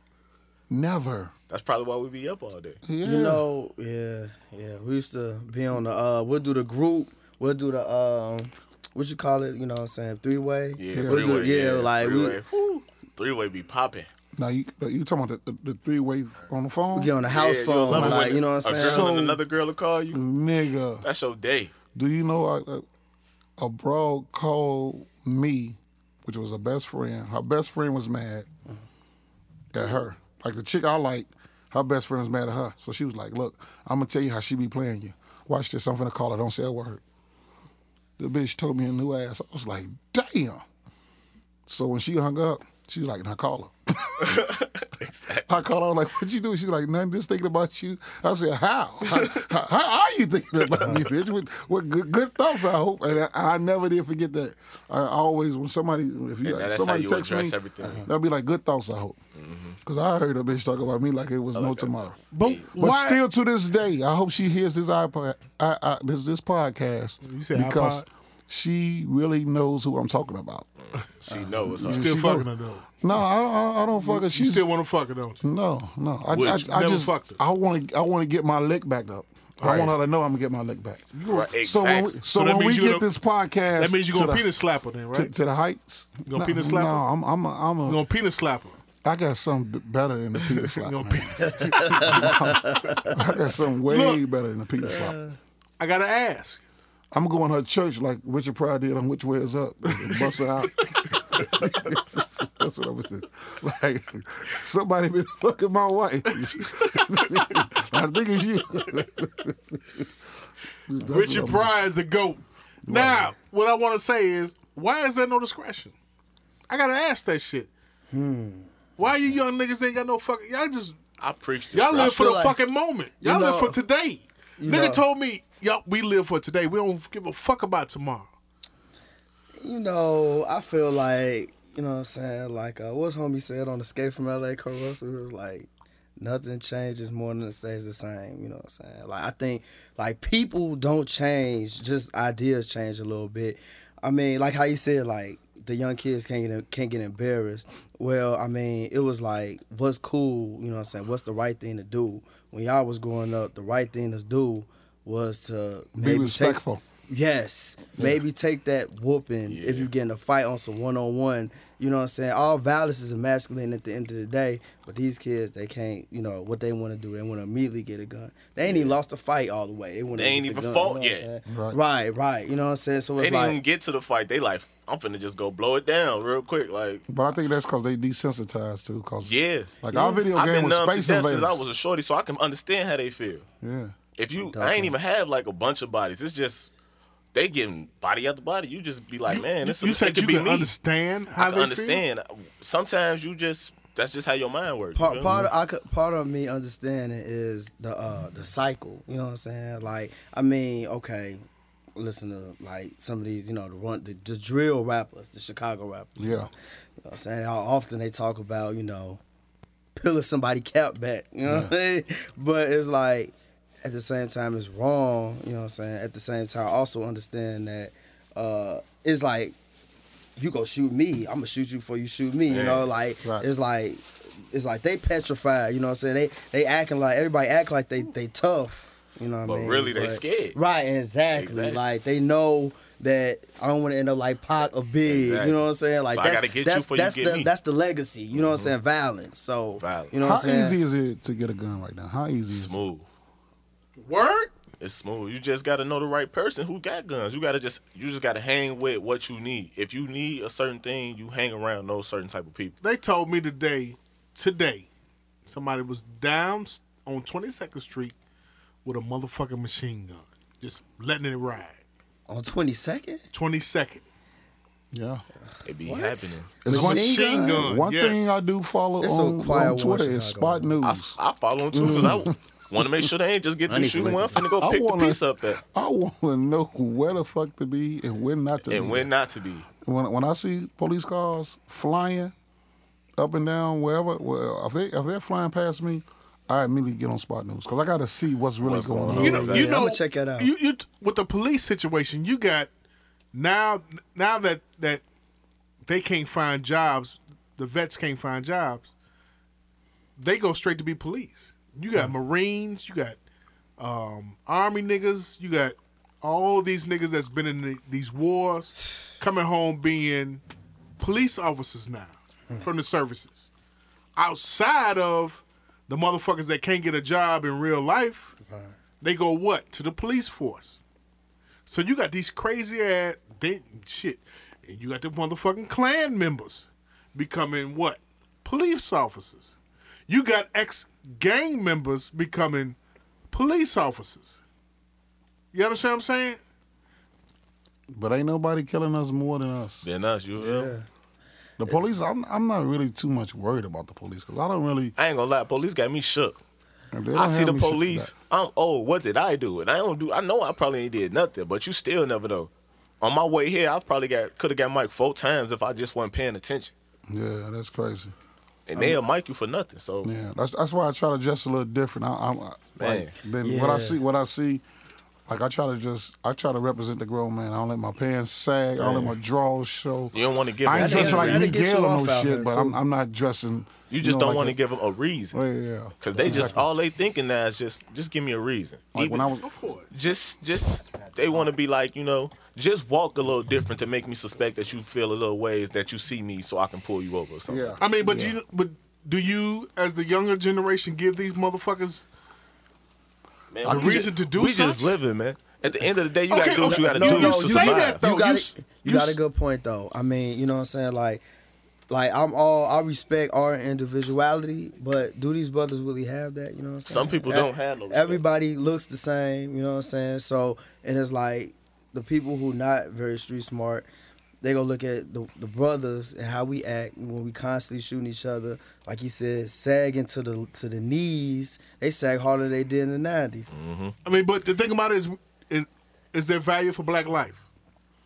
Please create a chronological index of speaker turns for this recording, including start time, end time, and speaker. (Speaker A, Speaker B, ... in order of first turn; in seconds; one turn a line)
Speaker A: 0.7-1.3
Speaker B: 1.5-2.8
Speaker A: 2.9-3.4
Speaker C: 3.0-12.4
Speaker B: 10.8-14.1
Speaker A: 10.9-11.2
Speaker A: 14.4-17.1
Speaker C: 16.9-19.1
Speaker B: 17.3-20.2
Speaker A: 17.9-19.4
Speaker A: 20.1-21.1
Speaker B: 21.0-21.7
Speaker A: 21.9-22.9
Speaker A: 23.6-28.5
Speaker A: 29.7-37.0
Speaker A: 38.2-40.6
Speaker A: 41.7-44.5
Speaker B: 44.2-45.5
Speaker A: 45.4-59.2
Speaker B: 49.1-49.5
Speaker B: 50.6-50.9
Speaker B: 56.4-58.1
Speaker B: 59.4-59.8
Speaker A: 59.8-62.2
Speaker B: 61.5-62.7
Speaker D: 62.3-63.2
Speaker A: 62.8-70.7
Speaker D: 67.2-68.1
Speaker B: 70.8-72.2
Speaker A: 71.7-72.5
Speaker D: 71.8-72.9
Speaker A: 73.0-74.7
Speaker D: 74.0-75.4
Speaker A: 75.4-84.5
Speaker D: 76.3-77.4
Speaker D: 79.6-79.9
Speaker D: 81.1-81.5
Speaker B: 81.3-82.2
Speaker D: 82.2-83.1
Speaker D: 83.8-85.3
Speaker A: 85.1-88.0
Speaker D: 86.3-87.0
Speaker D: 87.9-88.8
Speaker A: 89.0-95.2
Speaker D: 90.8-92.4
Speaker C: 91.7-93.0
Speaker D: 93.9-94.2
Speaker D: 95.8-96.6
Speaker A: 97.1-110.1
Speaker A: 110.9-111.7
Speaker D: 111.0-115.9
Speaker A: 112.9-113.3
Speaker D: 116.7-117.7
Speaker C: 118.1-118.7
Speaker D: 119.0-121.0
Speaker B: 121.2-122.2
Speaker D: 121.7-128.3
Speaker C: 122.0-122.6
Speaker C: 123.2-123.8
Speaker C: 124.6-125.0
Speaker C: 129.6-173.6
Speaker A: 155.9-156.8
Speaker B: 159.5-159.9
Speaker B: 168.6-169.0
Speaker B: 170.1-171.3
Speaker A: 171.4-171.8
Speaker B: 173.2-177.1
Speaker A: 177.1-181.6
Speaker B: 179.2-183.4
Speaker A: 183.6-183.9
Speaker B: 184.2-186.7
Speaker C: 184.4-184.9
Speaker B: 187.3-190.7
Speaker D: 189.3-192.0
Speaker B: 191.4-195.4
Speaker C: 194.9-201.4
Speaker C: 201.9-206.4
Speaker A: 206.2-206.5
Speaker C: 207.0-209.2
Speaker C: 209.9-219.6
Speaker A: 211.4-211.7
Speaker C: 220.4-240.8
Speaker B: 222.5-222.9
Speaker B: 229.4-230.6
Speaker B: 231.3-231.8
Speaker B: 235.0-237.5
Speaker B: 238.3-238.7
Speaker B: 239.8-240.1
Speaker A: 240.2-242.8
Speaker B: 242.5-243.1
Speaker D: 244.0-244.5
Speaker B: 244.8-252.8
Speaker D: 252.8-254.9
Speaker D: 255.4-258.1
Speaker D: 258.8-261.8
Speaker C: 262.3-263.2
Speaker D: 263.3-264.0
Speaker A: 264.9-265.2
Speaker B: 265.6-266.6
Speaker C: 265.9-267.6
Speaker A: 266.6-271.2
Speaker D: 266.7-268.3
Speaker C: 269.0-270.7
Speaker B: 270.8-275.6
Speaker A: 271.7-273.1
Speaker C: 273.7-274.4
Speaker A: 274.6-279.1
Speaker B: 278.6-279.7
Speaker A: 279.8-282.3
Speaker A: 283.2-289.6
Speaker B: 288.6-289.8
Speaker C: 289.1-290.5
Speaker D: 289.2-292.7
Speaker D: 293.3-295.0
Speaker D: 295.9-298.9
Speaker D: 300.2-303.2
Speaker D: 303.8-310.4
Speaker D: 311.0-313.5
Speaker D: 314.1-318.4
Speaker D: 319.0-320.8
Speaker D: 321.6-329.6
Speaker D: 330.1-332.8
Speaker D: 333.3-334.4
Speaker D: 335.5-336.4
Speaker A: 337.9-339.9
Speaker B: 339.8-340.7
Speaker C: 340.4-340.9
Speaker A: 341.6-344.9
Speaker B: 344.9-346.4
Speaker A: 346.9-348.1
Speaker B: 347.1-356.7
Speaker A: 357.1-358.1
Speaker B: 358.7-360.1
Speaker A: 360.0-364.6
Speaker B: 362.8-363.1
Speaker C: 363.4-364.0
Speaker A: 365.3-374.6
Speaker B: 368.8-369.1
Speaker B: 370.1-371.5
Speaker C: 370.7-372.8
Speaker B: 373.9-375.4
Speaker A: 375.3-376.6
Speaker B: 376.0-379.3
Speaker C: 376.1-376.6
Speaker A: 378.9-379.4
Speaker D: 379.4-379.9
Speaker B: 379.9-387.8
Speaker C: 380.9-381.4
Speaker A: 387.5-388.4
Speaker D: 387.8-392.1
Speaker B: 393.5-398.0
Speaker A: 393.6-394.1
Speaker D: 393.6-394.9
Speaker D: 396.3-399.2
Speaker C: 396.6-401.2
Speaker C: 401.9-413.9
Speaker B: 406.9-408.2
Speaker C: 414.4-423.5
Speaker B: 423.5-423.9
Speaker D: 424.0-427.4